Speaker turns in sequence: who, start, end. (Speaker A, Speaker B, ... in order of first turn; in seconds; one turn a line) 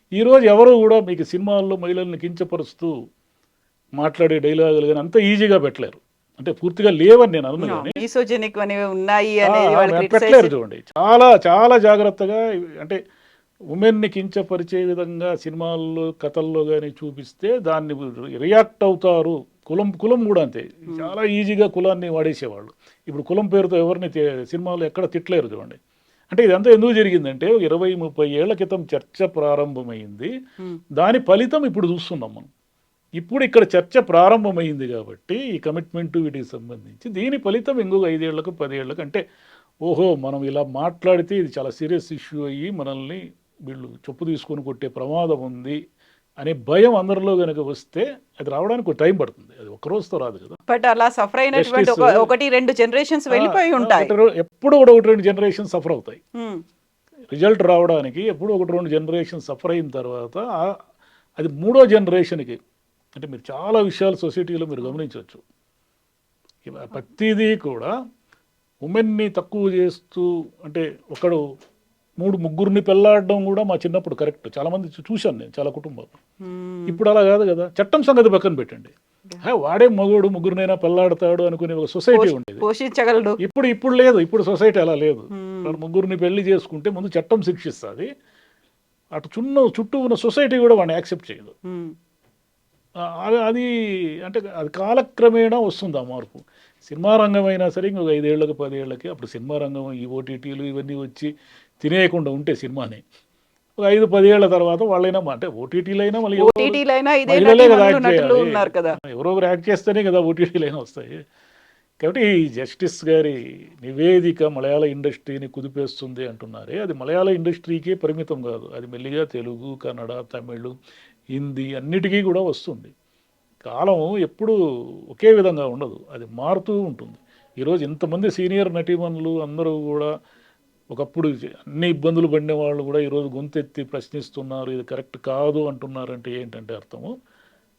Speaker A: 0.2-2.9
Speaker A: 4.0-8.0
Speaker B: 7.6-10.5
Speaker A: 9.4-13.0
Speaker A: 13.7-25.8
Speaker B: 20.9-21.1
Speaker A: 26.3-30.3
Speaker A: 30.9-32.5
Speaker A: 33.2-39.2
Speaker A: 39.9-45.8
Speaker A: 46.4-50.6
Speaker B: 50.7-54.1
Speaker A: 51.5-52.3
Speaker A: 53.3-56.2
Speaker B: 56.4-56.6
Speaker A: 57.3-60.6
Speaker A: 61.4-62.6
Speaker A: 63.1-65.4
Speaker A: 66.6-67.9
Speaker A: 68.8-71.4
Speaker A: 72.2-76.1
Speaker B: 76.4-77.0
Speaker A: 76.9-82.6
Speaker B: 82.1-83.4
Speaker A: 83.4-88.1
Speaker B: 85.3-85.8
Speaker A: 89.1-91.5
Speaker B: 91.7-91.9
Speaker A: 93.2-101.3
Speaker A: 101.8-103.0
Speaker A: 103.8-111.2
Speaker B: 106.4-109.0
Speaker A: 112.0-120.8
Speaker A: 121.3-122.9
Speaker A: 123.7-124.6
Speaker A: 125.1-130.1
Speaker A: 130.9-137.1